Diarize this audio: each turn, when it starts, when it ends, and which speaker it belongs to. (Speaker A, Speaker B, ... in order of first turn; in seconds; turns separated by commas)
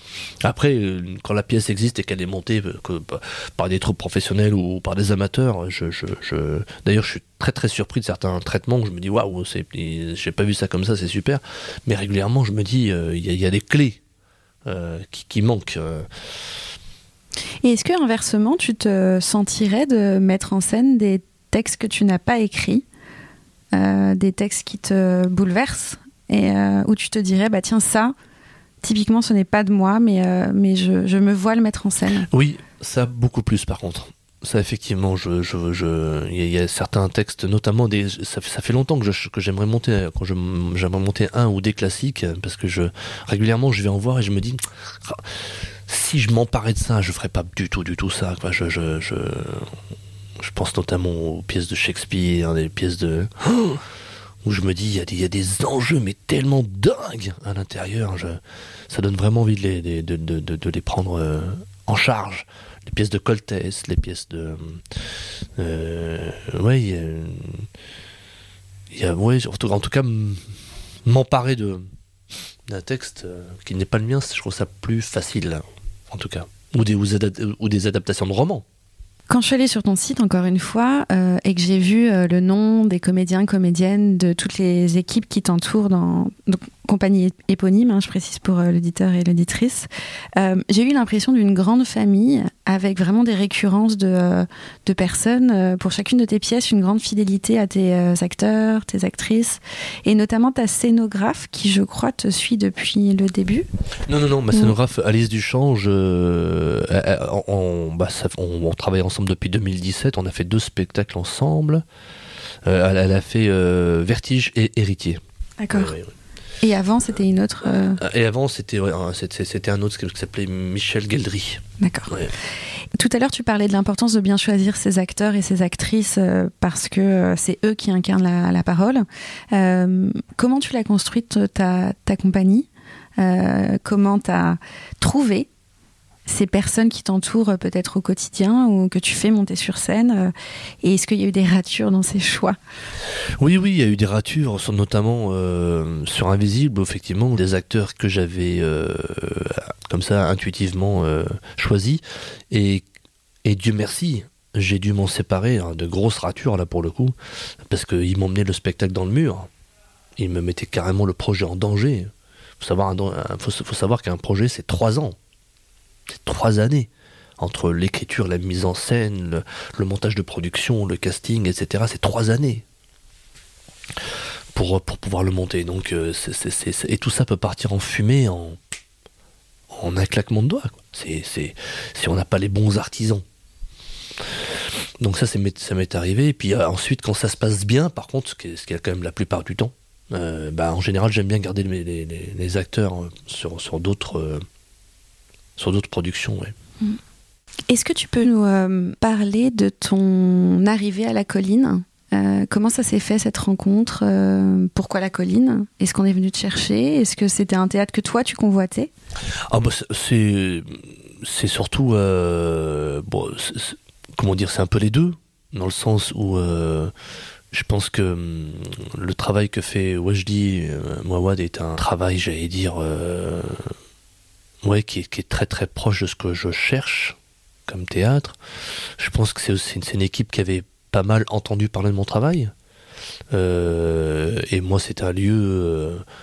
Speaker A: 0.4-14.0, Speaker A: 14.7-16.1, Speaker B: 17.6-22.8, Speaker B: 23.7-28.1, Speaker B: 28.8-32.3, Speaker A: 32.3-49.7, Speaker A: 50.4-53.8, Speaker A: 54.4-64.8, Speaker A: 65.6-67.7, Speaker A: 68.9-70.4, Speaker A: 71.0-71.8, Speaker A: 72.7-78.6, Speaker B: 79.3-103.7, Speaker A: 104.0-111.8, Speaker A: 112.6-115.2, Speaker B: 115.6-115.9, Speaker A: 115.7-116.1, Speaker B: 116.6-118.0, Speaker A: 118.0-122.3, Speaker B: 121.8-122.2, Speaker B: 123.0-135.5, Speaker B: 136.2-140.3, Speaker B: 140.8-142.6, Speaker A: 143.4-152.8, Speaker A: 153.4-159.5, Speaker A: 160.2-165.2, Speaker A: 166.1-172.6, Speaker A: 174.5-178.6, Speaker A: 179.7-183.2, Speaker A: 185.0-194.4, Speaker A: 195.6-196.5, Speaker B: 197.7-208.9, Speaker A: 209.5-216.9, Speaker A: 217.5-223.7, Speaker A: 224.6-228.4, Speaker A: 229.0-232.5, Speaker A: 233.3-236.0